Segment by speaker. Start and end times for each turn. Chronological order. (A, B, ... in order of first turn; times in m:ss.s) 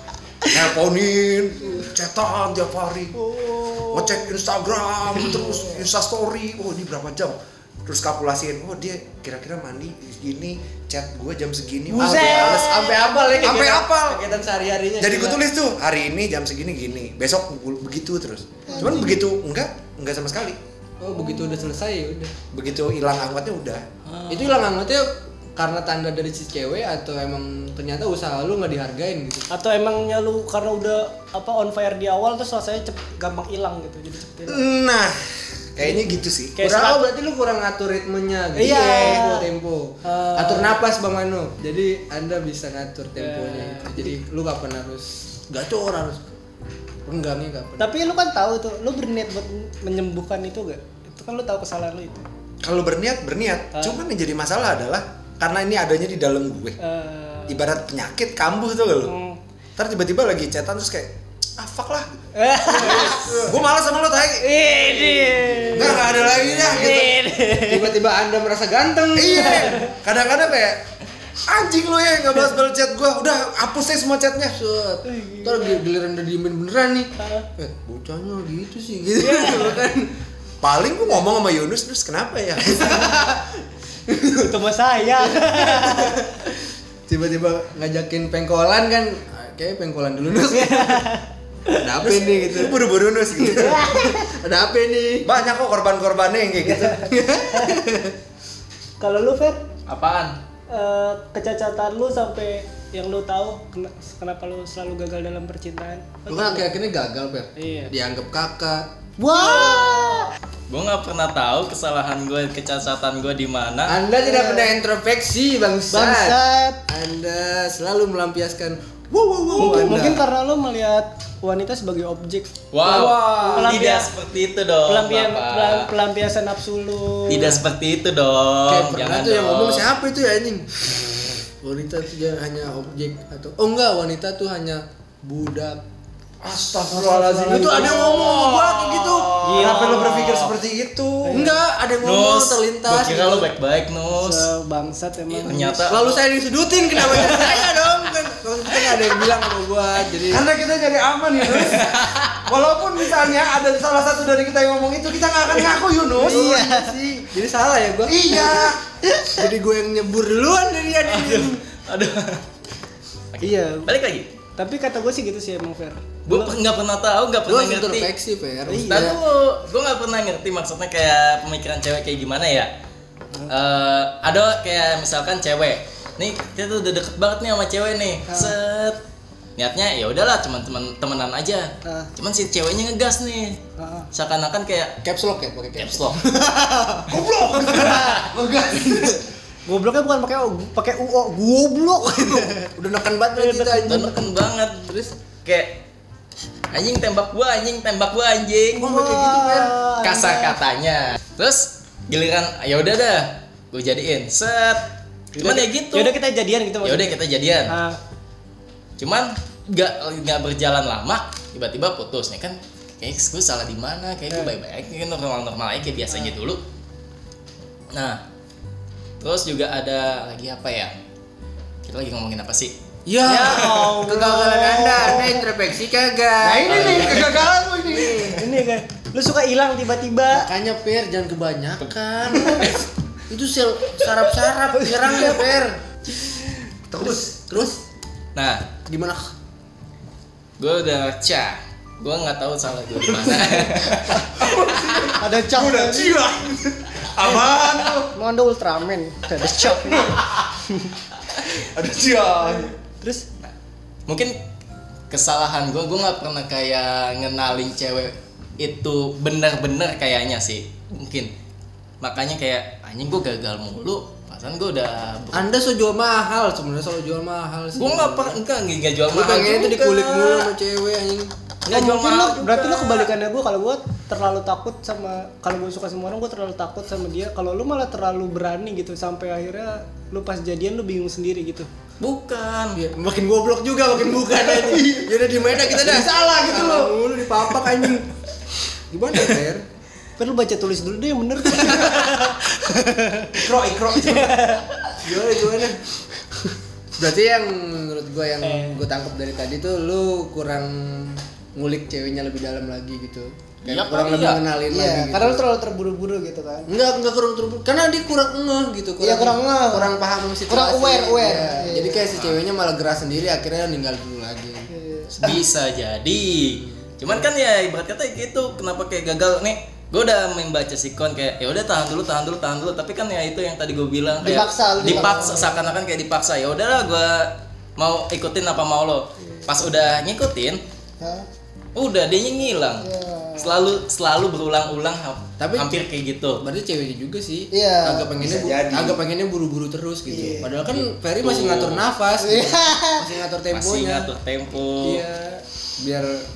0:00.4-0:03.2 A
0:03.1-0:04.4 B
0:03.9-0:14.3 A
0:05.2-0:05.8 B
0:11.9-0:15.4 C
0:11.9-0:13.8 B
0:15.0-0:20.6 A
0:18.7-0:19.2 B
0:21.0-0:22.3 C
0:21.1-0:21.7 B
0:22.5-0:23.8 A
0:24.2-0:24.6 B
0:24.3-0:29.5 C
0:29.5-0:34.6 B
0:34.5-0:35.2 A
0:35.8-0:36.7 A
0:36.6-0:37.1 B
0:36.6-0:46.4 C
0:38.6-0:39.5 B
0:40.0-0:40.8 B
0:43.2-0:44.1 B
0:47.1-0:48.0 C
0:47.8-0:52.2 B
0:52.6-0:56.8 A
0:53.7-0:54.0 B
0:56.8-0:57.6 B
0:57.5-0:59.1 A
0:59.0-0:59.4 B
0:59.8-1:05.2 A
1:02.4-1:03.5 B
1:02.6-1:03.6 C
1:04.4-1:07.9 B
1:05.3-1:09.8 C
1:05.7-1:07.2 A
1:09.2-1:10.8 A
1:09.3-1:09.9 B
1:11.5-1:14.6 A
1:14.5-1:20.1 C
1:15.0-1:15.8 B
1:17.2-1:17.5 B
1:19.2-1:19.8 B
1:20.6-1:23.1 A
1:22.7-1:24.5 C
1:24.4-1:26.2 B
1:25.2-1:26.5 C
1:27.1-1:31.1 C
1:30.5-1:31.8 B
1:31.7-1:35.3 C
1:32.0-1:33.8 A
1:33.5-1:34.3 B
1:35.2-1:37.1 A
1:36.6-1:37.8 B
1:37.0-1:38.2 C
1:39.0-1:39.6 B
1:39.9-1:40.4 D
1:40.7-1:46.7 B
1:46.3-1:48.9 C
1:47.6-1:47.9 B
1:49.2-1:50.3 B
1:50.7-1:54.0 D
1:53.9-2:00.2 C
1:54.2-1:54.7 B
1:55.9-1:56.8 B
1:59.6-2:04.1 B
2:02.7-2:05.9 D
2:02.8-2:03.8 A
2:04.9-2:07.6 B
2:07.3-2:09.9 D
2:08.7-2:10.8 C
2:11.6-2:15.8 C
2:16.4-2:21.5 A
2:16.9-2:18.2 B
2:17.4-2:19.4 C
2:19.4-2:20.4 B
2:19.6-2:20.5 D
2:21.2-2:21.6 B
2:21.3-2:23.5 C
2:22.0-2:24.5 D
2:24.1-2:26.0 B
2:25.3-2:26.2 D
2:25.9-2:30.5 C
2:27.2-2:27.6 D
2:30.3-2:36.4 A
2:31.5-2:32.4 D
2:36.2-2:37.0 B
2:36.2-2:38.5 C
2:38.1-2:38.8 A
2:38.3-2:39.4 B
2:39.3-2:41.6 C
2:41.1-2:42.4 D
2:43.3-2:44.3 D
2:43.4-2:43.9 B
2:44.6-2:46.6 B
2:46.3-2:48.1 D
2:47.5-2:49.2 C
2:48.7-2:49.2 B
2:48.9-2:52.7 D
2:53.5-2:59.0 D
2:58.3-2:58.5 B
2:59.6-3:03.6 D
3:01.8-3:02.1 B
3:03.8-3:04.1 B
3:04.1-3:05.0 D
3:05.0-3:07.2 C
3:05.8-3:06.2 D
3:07.1-3:09.2 A
3:07.7-3:08.3 B
3:08.7-3:09.2 C
3:09.7-3:12.7 B
3:12.3-3:15.2 C
3:13.4-3:14.1 B
3:13.8-3:14.9 D
3:15.4-3:15.8 D
3:16.7-3:18.9 D
3:18.8-3:19.7 C
3:18.8-3:20.6 B
3:20.0-3:24.8 D
3:25.4-3:28.0 B
3:25.4-3:26.2 D
3:26.8-3:27.7 D
3:29.0-3:36.6 D
3:37.9-3:38.2 D
3:39.2-3:40.9 D
3:41.8-3:42.7 D
3:43.1-3:48.5 C
3:43.2-3:45.4 B
3:46.4-3:48.4 A
3:46.6-3:47.4 D
3:48.4-3:50.5 B
3:50.3-3:55.8 C
3:54.2-3:55.5 B
3:56.9-3:57.3 A
3:57.0-3:57.8 C
3:58.4-3:58.7 D
3:58.9-3:59.3 C
4:00.6-4:04.2 D
4:04.3-4:08.1 A
4:05.2-4:06.2 B
4:08.1-4:10.9 B
4:09.7-4:10.4 A
4:11.4-4:12.7 A
4:12.5-4:13.2 B
4:14.1-4:14.4 D
4:15.1-4:21.3 D
4:22.0-4:25.5 D
4:25.3-4:28.4 C
4:27.8-4:30.5 D
4:29.1-4:31.3 C
4:31.7-4:33.1 D
4:31.7-4:41.7 B
4:42.0-4:42.8 D
4:42.8-4:48.1 C
4:45.7-4:47.0 A
4:48.7-4:49.6 C
4:50.2-4:55.0 B
4:51.6-4:52.0 C
4:53.3-4:54.4 A
4:55.0-4:55.8 C
4:56.4-5:05.4 C
4:58.4-4:58.8 B
5:03.6-5:04.4 D
5:04.7-5:06.7 B
5:06.7-5:14.7 C
5:09.0-5:10.0 B
5:10.5-5:12.1 B
5:12.1-5:12.4 D
5:14.7-5:15.4 B
5:15.2-5:30.6 D
5:24.2-5:25.6 B
5:24.8-5:25.2 C
5:31.0-5:31.2 B
5:31.8-5:32.9 D
5:32.8-5:33.6 B
5:33.4-5:36.4 D
5:35.4-5:35.7 C
5:36.4-5:44.1 C
5:37.5-5:38.1 B
5:38.2-5:39.0 A
5:40.2-5:40.4 B
5:40.2-5:40.5 A
5:41.2-5:41.8 D
5:42.2-5:43.1 B
5:43.5-5:45.0 D
5:44.8-5:46.2 C